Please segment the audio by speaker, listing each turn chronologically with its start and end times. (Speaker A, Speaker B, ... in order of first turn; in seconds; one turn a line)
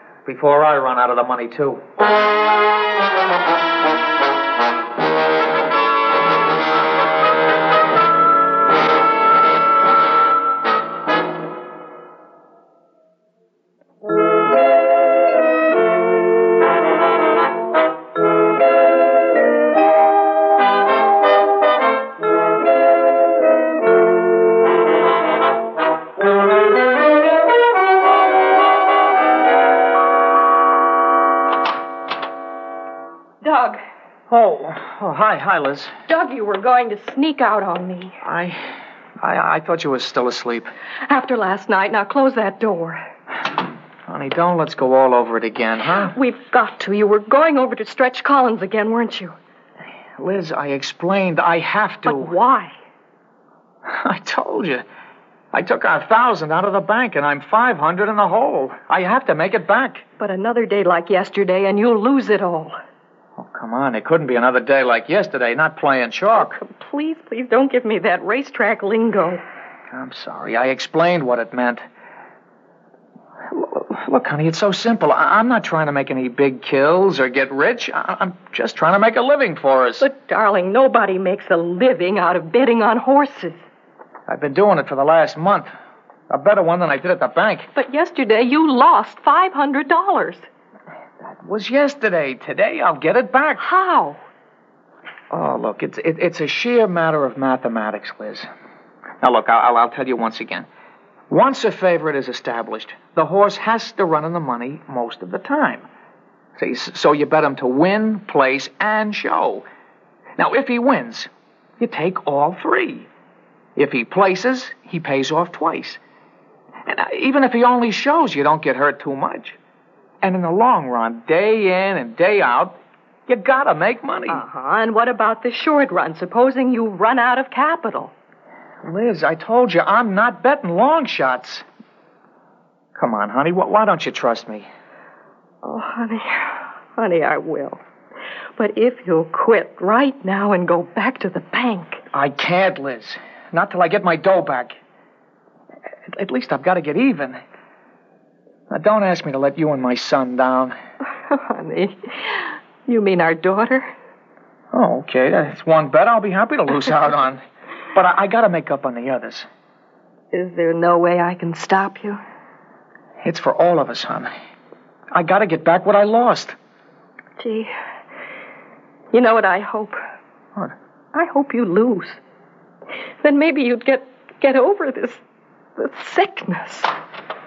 Speaker A: 0.3-1.8
Speaker B: 33.4-33.8
Speaker A: 34.3-35.9
Speaker B: 36.1-38.1
Speaker A: 38.2-38.6
Speaker A: 39.2-40.7
Speaker B: 41.1-43.0
Speaker A: 44.1-46.1
Speaker B: 46.0-49.4
Speaker A: 50.2-52.4
Speaker B: 52.0-52.8
Speaker A: 53.9-54.8
Speaker A: 55.5-60.0
Speaker B: 60.2-62.7
Speaker A: 63.4-66.6
Speaker B: 66.3-69.4
Speaker A: 69.9-71.8
Speaker A: 73.5-80.1
Speaker B: 80.0-83.6
Speaker A: 84.3-85.7
Speaker A: 86.3-87.7
Speaker B: 87.8-90.5
Speaker A: 91.2-93.6
Speaker B: 93.6-94.2
Speaker A: 95.3-98.5
Speaker A: 99.2-100.7
Speaker A: 101.3-105.9
Speaker A: 106.6-109.7
Speaker A: 110.4-113.1
Speaker A: 113.8-116.0
Speaker A: 116.9-119.6
Speaker A: 120.2-124.4
Speaker B: 124.3-128.1
Speaker A: 128.8-131.6
Speaker A: 133.0-134.7
Speaker B: 135.6-137.8
Speaker B: 138.6-142.0
Speaker A: 142.1-144.7
Speaker A: 146.1-147.4
Speaker A: 148.7-150.7
Speaker B: 151.3-153.9
Speaker A: 154.7-157.4
Speaker A: 157.9-159.5
Speaker B: 160.3-162.2
Speaker A: 163.2-164.3
Speaker A: 165.1-166.6
Speaker B: 167.4-167.7
Speaker B: 169.1-170.0
Speaker B: 171.1-172.2
Speaker B: 173.2-175.2
Speaker B: 175.8-176.9